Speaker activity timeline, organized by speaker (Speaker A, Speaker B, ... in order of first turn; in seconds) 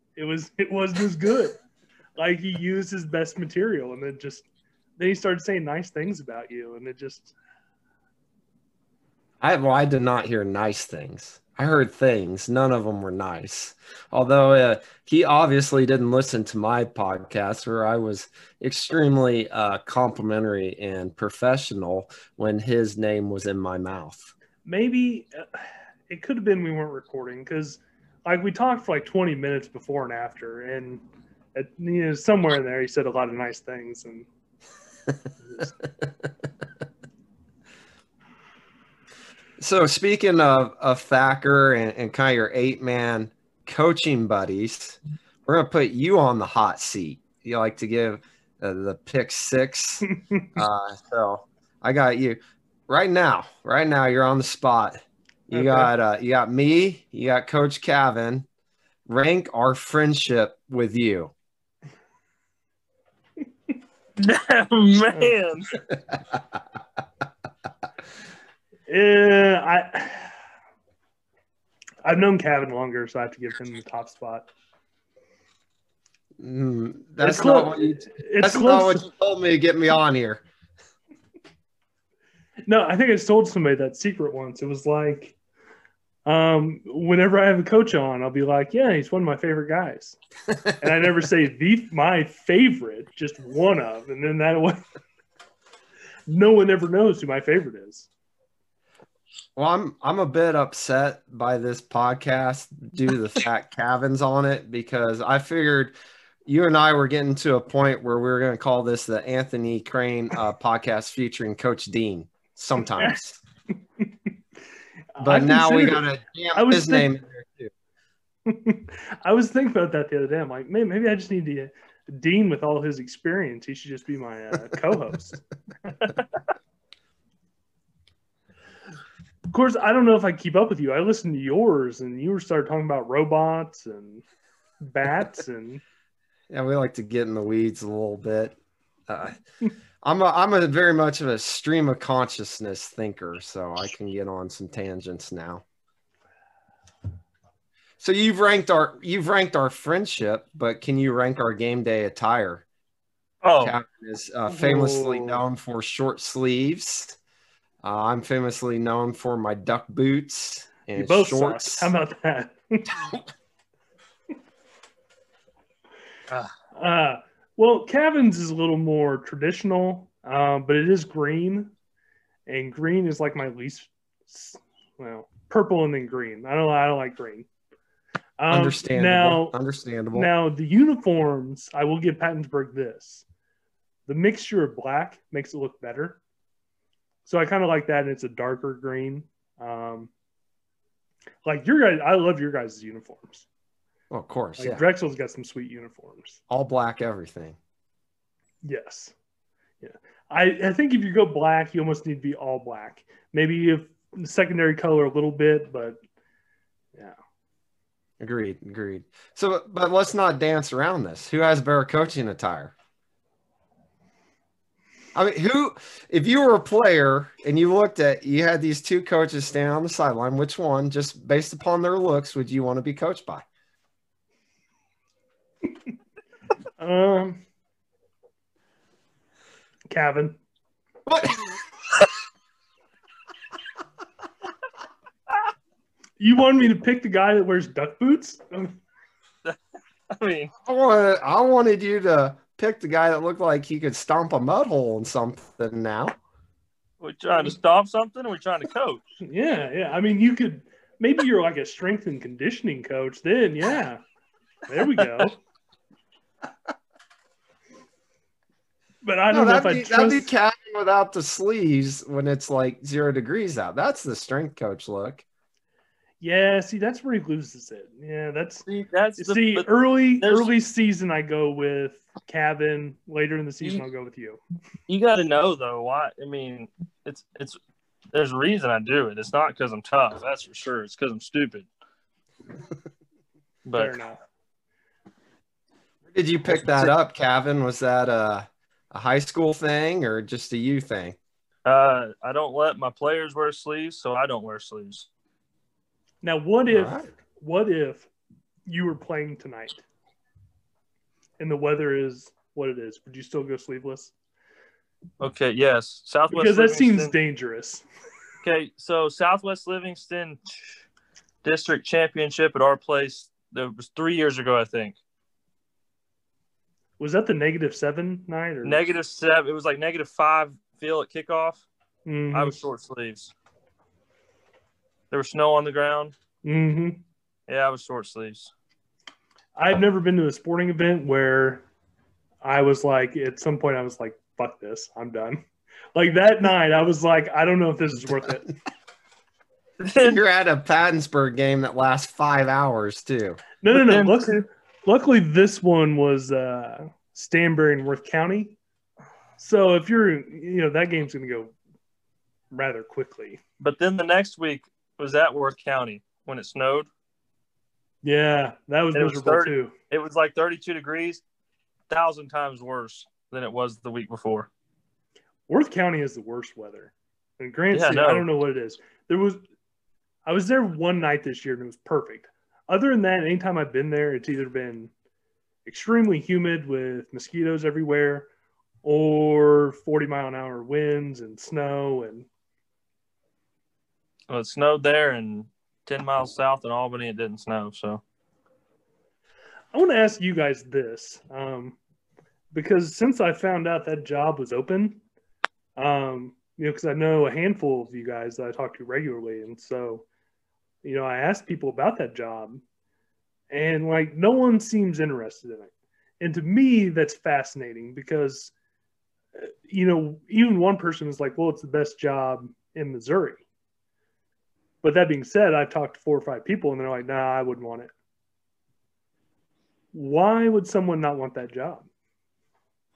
Speaker A: 0.2-1.6, 2.2-4.5, 5.0-7.3, 24.6-31.0, 31.5-34.3, 50.1-50.5, 55.5-55.9, 68.9-70.3, 72.0-74.5, 77.2-79.0, 82.7-85.3, 86.2-90.2, 90.8-94.8, 96.3-98.1, 114.0-114.3, 115.1-117.1, 118.5-125.4, 129.5-134.2, 134.8-135.8, 154.5-155.4, 160.9-163.0, 166.7-171.7, 172.5-177.5, 178.4-179.5, 180.1-183.2, 184.1-186.2, 187.2-190.1, 191.4-193.5, 194.6-196.4, 198.6-199.1, 199.8-206.0, 226.8-227.4, 229.9-230.4, 236.2-238.8, 249.2-254.0, 254.7-255.4, 259.0-260.3, 266.2-268.6, 269.2-274.4, 283.7-284.2, 296.2-298.1, 298.6-299.8, 301.4-304.1, 306.3-307.8, 317.0-318.8, 322.1-322.6, 326.4-327.0, 329.6-331.6, 332.4-335.4, 335.9-338.5, 343.6-348.6, 349.4-351.5, 352.5-353.4, 358.0-359.7, 365.5-369.4, 370.2-374.9, 375.6-378.3, 378.8-382.3, 389.7-391.8, 392.5-395.0, 395.8-400.0, 400.8-402.6, 403.5-408.5, 409.4-413.4, 414.8-417.9, 419.9-421.9
Speaker B: 9.4-24.3, 39.6-58.5, 59.1-61.3, 66.1-66.4, 76.4-80.4, 99.5-105.9, 106.5-113.4, 115.2-117.7, 136.5-138.6, 139.1-139.4, 140.0-145.6, 148.0-152.6, 153.6-157.2, 157.8-161.9, 178.5-180.3, 194.1-194.8, 196.5-197.6, 208.2-212.7, 215.1-223.4, 231.1-231.6, 240.6-246.1, 259.3-265.2, 286.1-291.2, 296.7-297.1, 340.0-343.4
Speaker C: 64.2-65.7, 153.4-153.8, 240.1-240.5, 247.0-249.0, 255.0-255.2, 268.6-270.5, 274.9-277.6, 278.1-281.7, 283.6-284.0, 286.6-286.9, 291.6-295.1, 305.2-307.1, 308.4-310.4, 311.4-314.9, 318.6-321.6, 322.3-323.3, 325.1-326.1, 327.5-328.5, 339.8-340.2, 343.7-344.4, 353.6-356.9, 358.9-361.2, 361.9-364.5, 367.7-368.2, 384.3-388.0